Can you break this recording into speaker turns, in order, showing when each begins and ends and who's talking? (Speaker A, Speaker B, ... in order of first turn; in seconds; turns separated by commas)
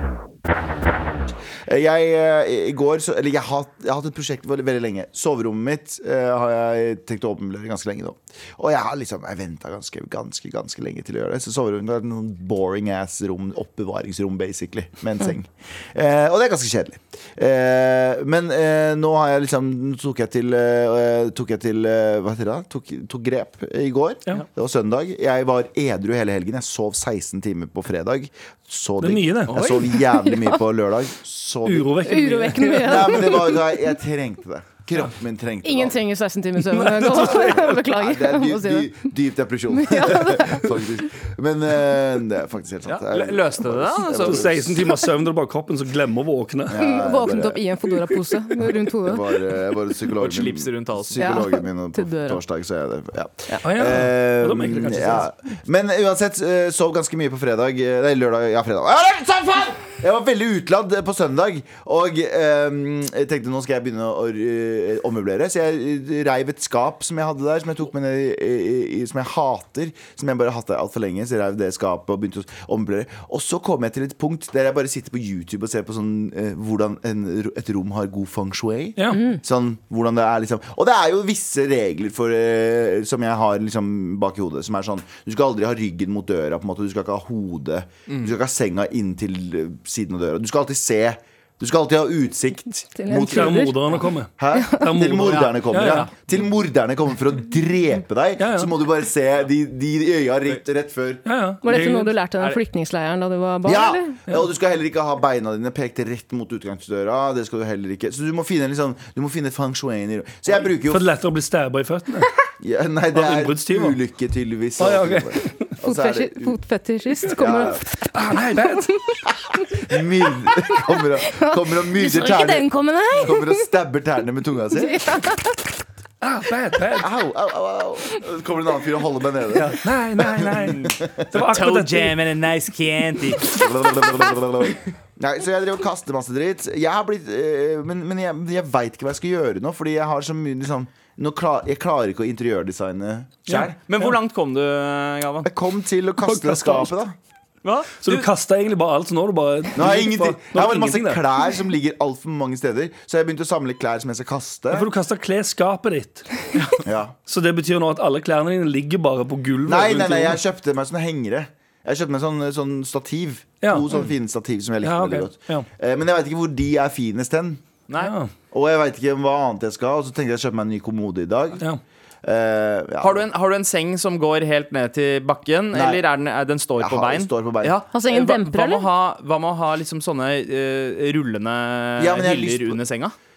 Speaker A: 1.7-31.9, Speaker B: 29.0-29.8, Speaker C: 29.5-29.8, Speaker D: 30.2-30.6, Speaker B: 31.6-33.4, Speaker D: 32.0-33.6, Speaker A: 32.7-36.0, Speaker D: 35.6-39.0, Speaker B: 36.7-37.7, Speaker A: 37.4-44.9, Speaker D: 39.7-40.7, Speaker C: 42.9-44.5, Speaker B: 44.1-46.8, Speaker A: 46.7-47.6, Speaker D: 46.8-49.3, Speaker A: 49.0-93.7, Speaker C: 50.2-51.2, Speaker D: 51.2-52.4, Speaker B: 53.6-55.3, Speaker B: 79.0-79.2, Speaker D: 93.0-93.9, Speaker B: 93.1-96.1, Speaker A: 94.4-101.2, Speaker D: 94.5-94.9, Speaker B: 98.4-98.7, Speaker B: 101.3-102.2, Speaker D: 101.6-104.2, Speaker A: 103.7-111.1, Speaker B: 110.9-112.3, Speaker A: 112.6-116.6, Speaker B: 113.1-114.0, Speaker B: 114.8-115.7, Speaker D: 115.8-117.9, Speaker A: 117.3-117.8, Speaker B: 118.2-119.0, Speaker D: 118.6-119.2, Speaker A: 119.8-122.7, Speaker D: 120.7-123.7, Speaker A: 123.2-125.1, Speaker D: 124.8-125.6, Speaker B: 126.2-127.1, Speaker A: 127.0-131.3, Speaker B: 129.6-132.2, Speaker C: 131.5-133.5, Speaker A: 133.5-143.7, Speaker B: 143.5-144.1, Speaker C: 143.6-145.5, Speaker A: 145.4-147.2, Speaker B: 146.2-146.9, Speaker C: 147.6-148.3, Speaker B: 148.0-151.2, Speaker A: 149.8-154.9, Speaker B: 154.7-156.4, Speaker A: 156.8-157.2, Speaker B: 157.3-160.4, Speaker A: 159.7-167.6, Speaker B: 163.6-163.9, Speaker B: 164.8-165.7, Speaker B: 168.0-168.3, Speaker A: 168.5-171.6, Speaker A: 172.2-173.2, Speaker C: 173.0-183.1, Speaker A: 175.7-176.0, Speaker A: 176.8-177.8, Speaker D: 177.9-178.9, Speaker A: 182.0-182.8